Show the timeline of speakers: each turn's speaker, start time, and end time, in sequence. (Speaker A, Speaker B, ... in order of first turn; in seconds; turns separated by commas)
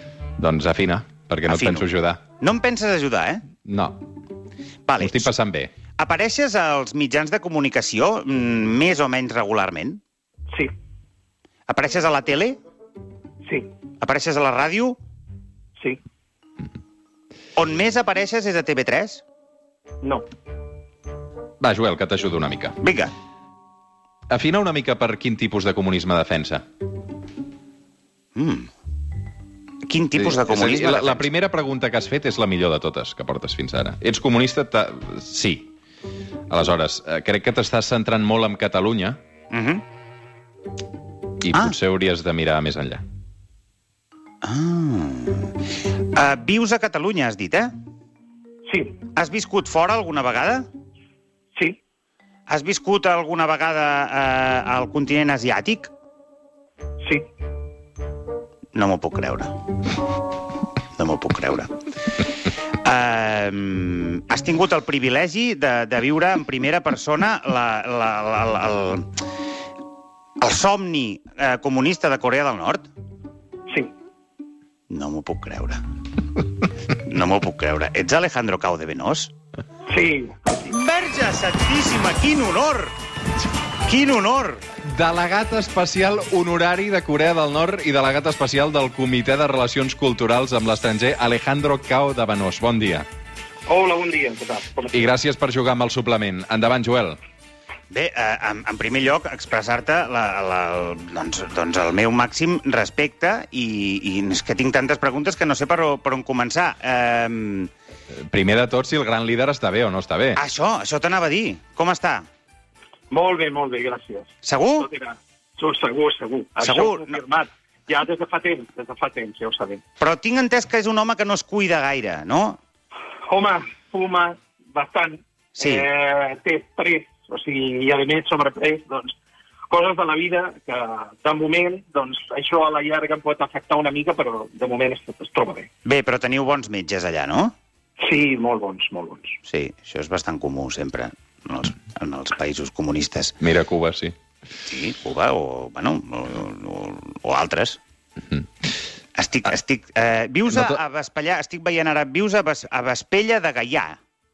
Speaker A: 0.4-2.2, Speaker B: 1.5-1.9, Speaker B: 2.4-3.4, Speaker A: 3.6-4.0, Speaker B: 4.9-5.3, Speaker A: 5.0-5.7, Speaker B: 6.0-10.0, Speaker B: 11.7-12.6, Speaker B: 14.0-15.0, Speaker B: 17.6-19.2, Speaker A: 21.6-22.8, Speaker B: 22.8-23.1, Speaker A: 24.3-26.6, Speaker B: 28.4-28.7, Speaker B: 29.9-31.3, Speaker A: 30.2-35.7, Speaker A: 36.5-39.2, Speaker B: 39.5-39.8, Speaker A: 41.4-43.0, Speaker B: 44.4-45.6, Speaker B: 46.1-47.7, Speaker C: 48.7-49.0, Speaker B: 49.2-50.7, Speaker B: 52.5-55.9, Speaker B: 58.7-59.6, Speaker B: 61.0-61.8, Speaker B: 62.8-69.1, Speaker B: 70.4-72.9, Speaker B: 74.9-75.8, Speaker B: 77.0-79.3, Speaker C: 79.9-80.7, Speaker B: 80.7-82.9, Speaker B: 83.8-84.7, Speaker A: 84.8-93.1, Speaker C: 93.7-95.1, Speaker A: 94.9-97.2, Speaker B: 97.9-107.7, Speaker A: 108.1-110.4, Speaker B: 110.4-112.3, Speaker C: 113.1-119.8, Speaker B: 114.4-114.9, Speaker B: 116.6-117.2, Speaker B: 120.0-122.6, Speaker C: 123.3-129.1, Speaker B: 125.6-125.9, Speaker C: 129.7-135.7, Speaker B: 135.8-137.6, Speaker C: 138.0-139.4, Speaker B: 139.5-143.4, Speaker A: 143.4-144.2, Speaker B: 144.7-147.8, Speaker B: 149.2-154.0, Speaker A: 150.5-150.8